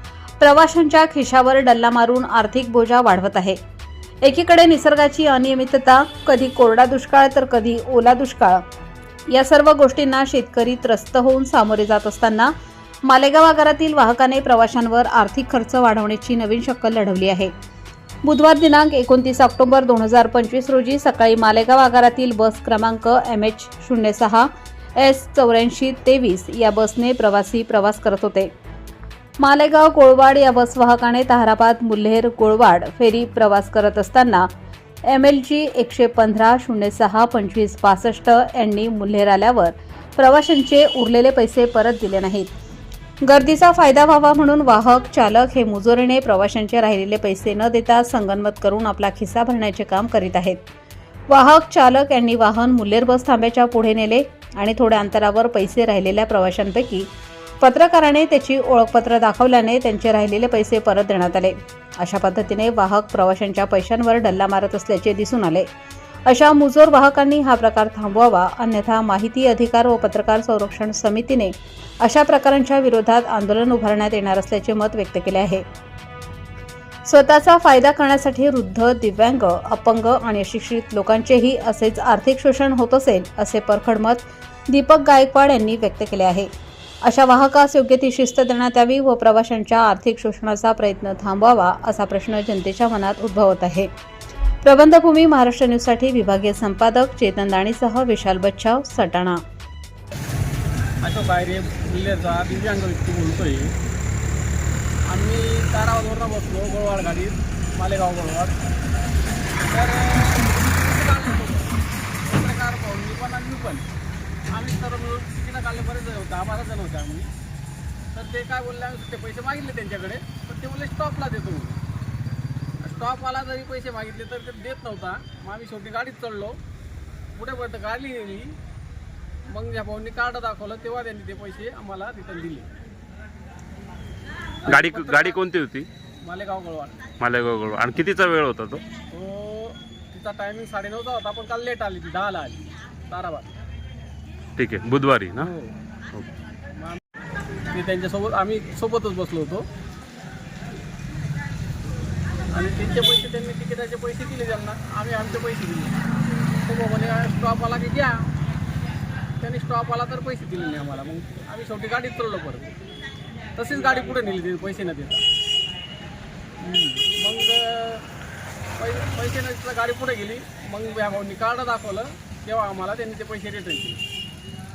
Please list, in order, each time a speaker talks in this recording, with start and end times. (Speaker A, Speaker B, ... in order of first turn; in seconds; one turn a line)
Speaker A: 0.4-3.6
Speaker A: 4.2-8.6
Speaker A: 9.3-12.5
Speaker A: 13.0-17.5
Speaker A: 18.2-28.5
Speaker A: 29.4-34.5
Speaker A: 35.1-42.5
Speaker A: 43.2-50.6
Speaker A: 51.3-57.1
Speaker A: 57.6-65.7
Speaker A: 66.2-75.6
Speaker A: 77.0-86.5
Speaker A: 87.0-93.9
Speaker A: 94.6-99.4
Speaker B: 101.0-103.7
Speaker B: 105.1-108.5
Speaker B: 109.6-113.8
Speaker B: 114.5-117.3
Speaker B: 118.1-121.8
Speaker B: 122.8-126.6
Speaker B: 127.3-128.6
Speaker B: 129.5-132.7
Speaker B: 134.6-135.4
Speaker C: 134.7-135.9
Speaker B: 136.2-137.0
Speaker C: 137.2-138.8
Speaker B: 139.1-143.5
Speaker C: 144.6-145.5
Speaker B: 145.4-145.7
Speaker B: 147.7-149.7
Speaker B: 152.5-156.0
Speaker B: 156.6-158.3
Speaker B: 159.4-162.7
Speaker B: 163.6-165.2
Speaker B: 166.6-168.1
Speaker B: 168.8-174.0